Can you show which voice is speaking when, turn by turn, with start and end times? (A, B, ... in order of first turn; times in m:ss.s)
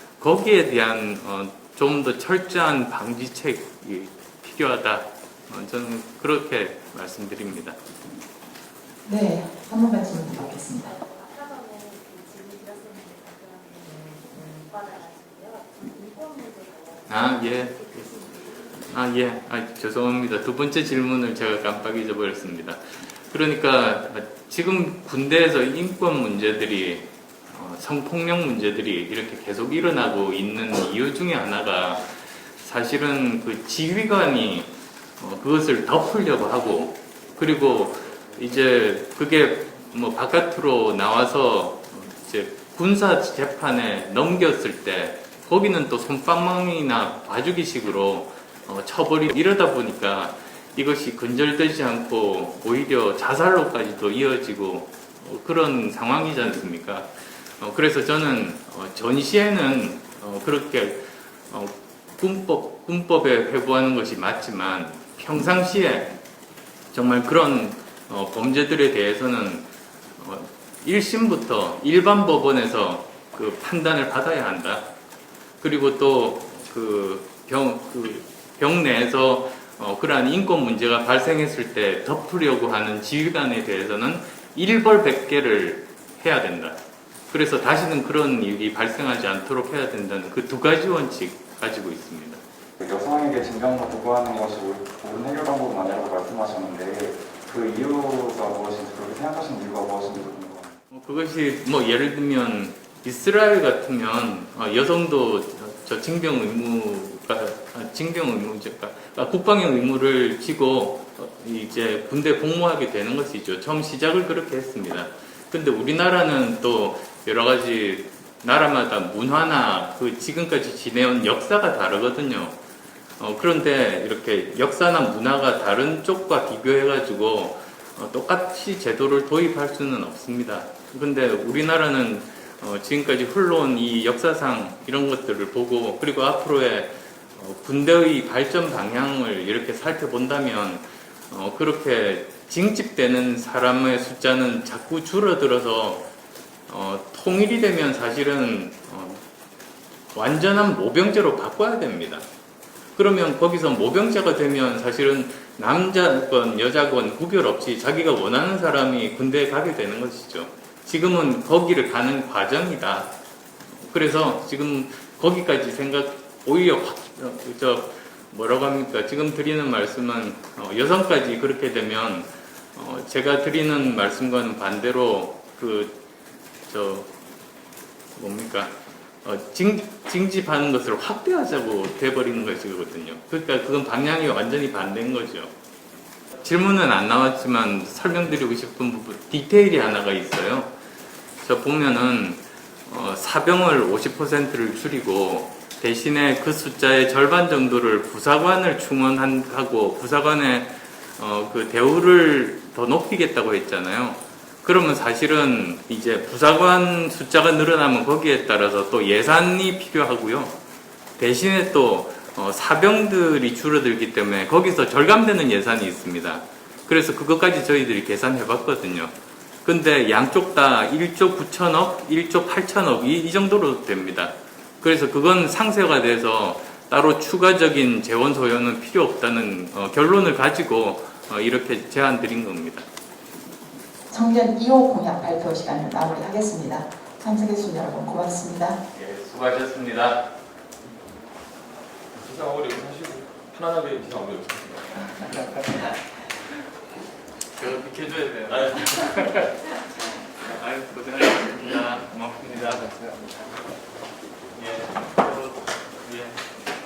0:00.2-0:07.8 A
0:09.0-0:10.9 B
0:10.8-0:19.0 C
0:17.1-0:18.1 A
0:18.9-0:32.1 A
0:32.6-1:06.2 A
1:06.9-1:09.6 A
1:10.2-1:14.9 A
1:15.6-1:26.8 A
1:27.3-1:32.4 A
1:32.8-1:40.7 D
1:40.9-2:02.6 A
2:03.2-2:26.1 A
2:26.7-2:29.2 A
2:30.1-2:32.2 A
2:33.0-2:43.1 A
2:43.8-2:56.0 A
2:56.7-2:57.1 A
2:58.2-3:05.5 A
3:06.4-3:10.7 A
3:11.4-3:30.6 A
3:31.2-3:39.1 A
3:39.6-3:52.8 A
3:54.1-3:58.8 B
3:58.9-4:00.3 A
4:02.2-4:05.7 E
4:07.6-4:09.8 A
4:08.5-4:09.2 E
4:10.4-4:13.0 A
4:14.6-4:16.4 A